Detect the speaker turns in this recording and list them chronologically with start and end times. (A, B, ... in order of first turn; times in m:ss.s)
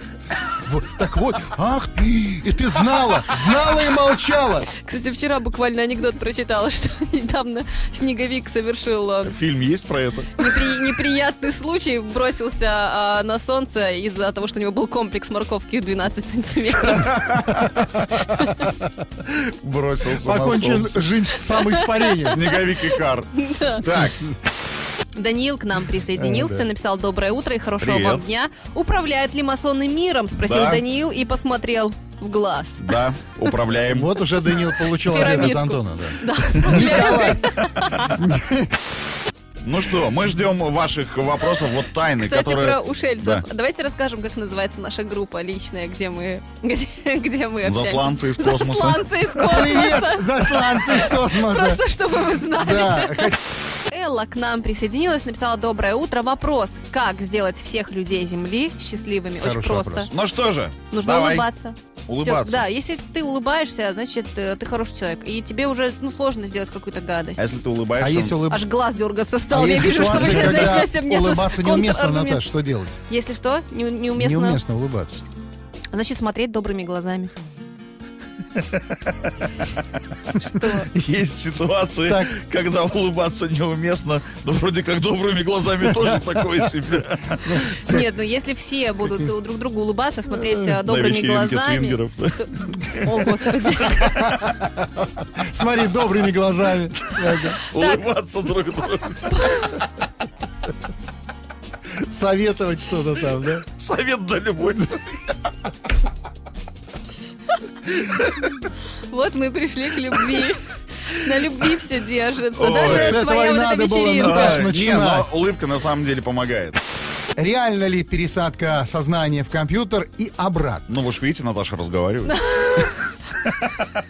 0:00.5-0:04.7 A
0:04.7-0:09.3 B
0:09.2-0:10.7 C
0:10.4-0:17.4 B
0:16.9-0:18.2 C
0:19.2-0:21.0 C
0:20.2-0:22.5 A
0:21.7-0:23.8 B
0:22.2-0:24.4 C
0:25.1-0:33.0 B
0:26.1-0:26.6 A
0:27.8-0:28.2 C
0:30.4-0:30.8 C
0:32.8-0:34.1 C
0:33.9-0:37.5 A
0:34.8-0:38.1 B
0:36.8-0:37.3 C
0:38.1-0:38.8 A
0:39.6-0:43.4 C
0:42.2-1:00.1 B
0:47.6-0:49.1 C
0:49.4-0:51.8 A
0:52.6-0:53.4 A
0:59.4-1:00.1 A
1:00.1-1:01.4 C
1:00.9-1:07.4 B
1:02.1-1:02.6 C
1:07.4-1:08.4 C
1:08.0-1:08.6 A
1:08.5-1:12.4 B
1:09.5-1:13.0 A
1:10.0-1:10.9 C
1:13.1-1:14.6 B
1:14.2-1:15.2 A
1:15.9-1:17.4 B
1:18.7-1:19.7 C
1:20.3-1:20.9 B
1:20.9-1:27.9 C
1:22.0-1:22.3 A
1:27.8-1:32.5 B
1:30.8-1:33.3 C
1:33.0-1:34.2 B
1:33.9-1:34.6 C
1:34.6-1:37.6 A
1:37.1-1:39.9 C
1:37.7-1:38.0 B
1:39.4-1:39.7 B
1:42.0-1:43.6 A
1:43.6-1:45.4 C
1:48.0-1:48.5 C
1:49.1-1:54.7 B
1:52.6-1:53.2 C
1:52.8-1:55.3 A
1:54.2-1:56.8 C
1:57.4-2:00.8 A
2:00.9-2:02.9 C
2:02.2-2:03.0 B